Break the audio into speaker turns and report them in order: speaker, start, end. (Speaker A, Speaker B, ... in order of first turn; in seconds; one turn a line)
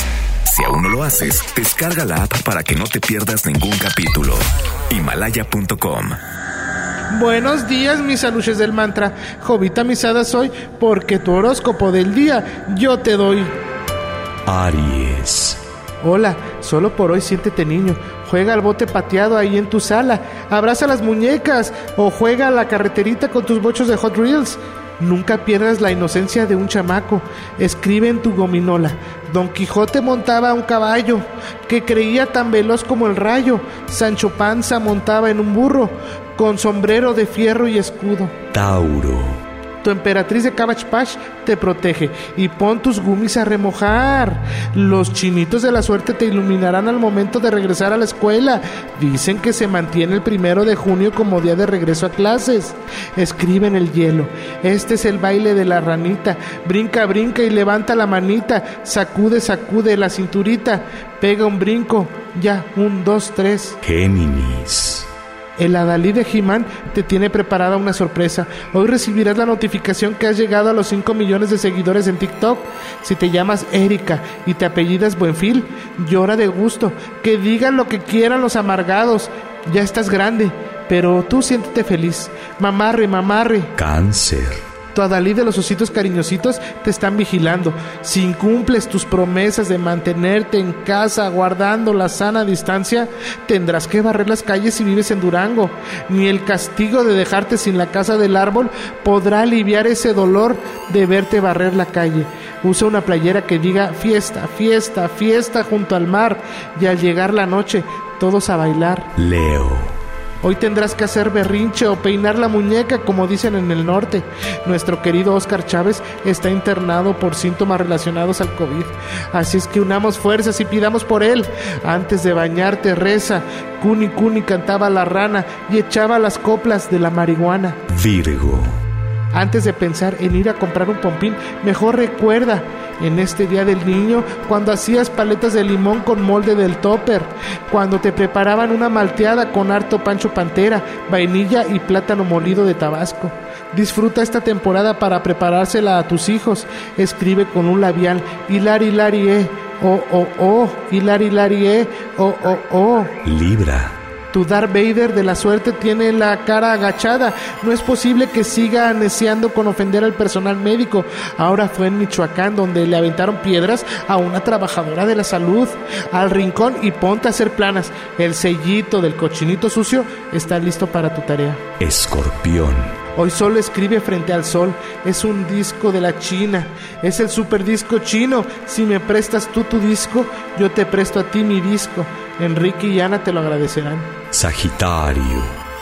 Speaker A: 0.5-6.2
Speaker B: 7.1-13.5
Speaker C: 14.5-15.6
Speaker B: 16.0-38.3
Speaker C: 38.5-39.4
Speaker B: 39.8-63.8
Speaker C: 63.8-65.1
Speaker B: 65.6-83.7
Speaker C: 83.8-84.6
Speaker B: 84.9-109.1
Speaker C: 109.2-110.0
Speaker B: 110.4-127.8
Speaker C: 127.9-128.8
Speaker B: 129.3-153.2
Speaker C: 153.2-154.0
Speaker B: 154.3-171.6
Speaker C: 171.8-173.0
Speaker B: 173.2-184.1
Speaker C: 184.3-185.6